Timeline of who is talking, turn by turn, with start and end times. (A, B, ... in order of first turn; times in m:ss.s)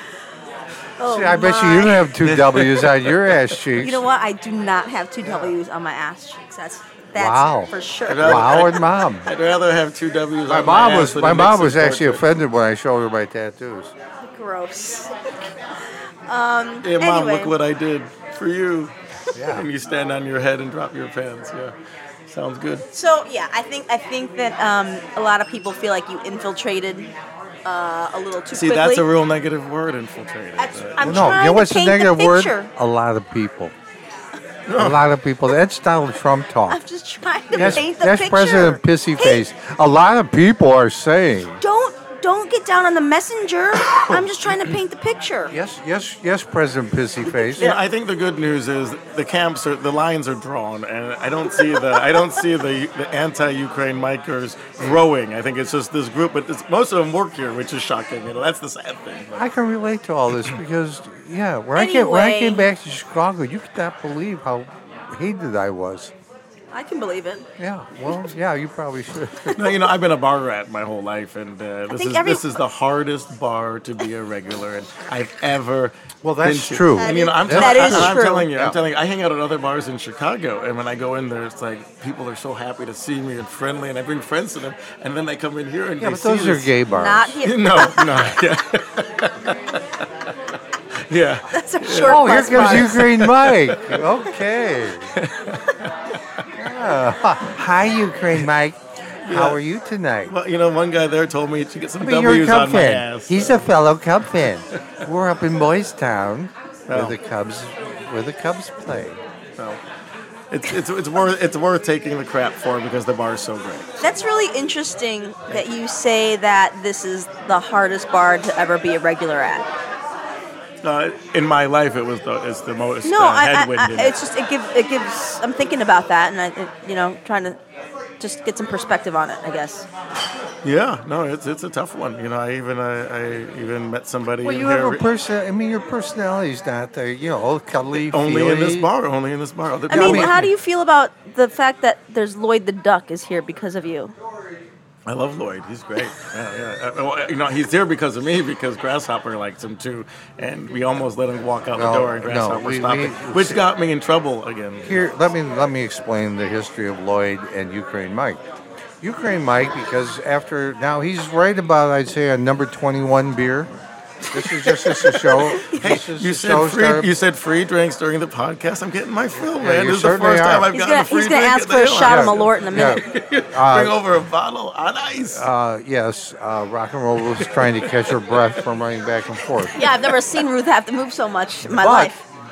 0:01.0-0:02.0 A
0:01.0-0:04.0 B
0:02.2-0:03.4 C
0:03.8-0:08.5 A
0:07.2-0:09.3 B
0:08.1-0:12.2 C
0:10.5-0:13.9 B
0:14.2-0:17.6 A
0:16.8-0:21.7 C
0:19.4-0:19.7 B
0:22.3-0:22.8 C
0:22.9-0:27.1 A
0:27.6-0:29.0 A
0:28.5-0:31.4 C
0:30.6-0:32.7 A
0:31.0-0:33.7 B
0:34.7-0:35.0 C
0:34.8-0:36.8 B
0:36.7-0:39.4 A
0:37.5-0:37.8 C
0:37.5-0:41.6 B
0:41.6-0:45.5 A
0:45.5-0:47.7 B
0:47.6-0:59.5 C
0:59.3-1:06.1 B
1:01.8-1:02.7 A
1:06.7-1:07.5 A
1:07.6-1:09.7 B
1:09.5-1:26.7 C
1:11.9-1:12.4 A
1:16.2-1:18.8 B
1:17.0-1:18.5 A
1:26.0-1:27.4 B
1:26.9-1:28.2 A
1:27.4-1:30.0 C
1:31.1-1:34.0 C
1:31.5-1:33.0 A
1:32.0-1:35.1 B
1:35.1-1:36.4 C
1:36.6-1:40.3 B
1:39.2-1:39.6 C
1:40.3-1:43.6 C
1:42.0-1:49.2 B
1:46.9-1:47.2 C
1:50.5-1:54.0 C
1:54.0-1:59.7 A
2:00.8-2:04.2 C
2:03.0-2:07.6 A
2:08.2-2:09.9 A
2:10.6-2:15.0 C
2:14.4-2:18.9 B
2:18.0-2:20.5 C
2:19.9-2:24.2 A
2:19.9-2:20.4 B
2:25.1-2:35.0 C
2:31.7-2:33.6 B
2:34.8-2:38.4 B
2:39.0-2:43.7 B
2:44.3-2:47.1 B
2:44.3-2:55.5 C
2:49.6-2:50.7 B
2:50.7-2:53.0 A
2:52.0-2:54.0 B
2:55.3-2:59.8 B
2:57.4-2:58.5 C
2:59.8-3:02.2 A
3:01.7-3:02.1 B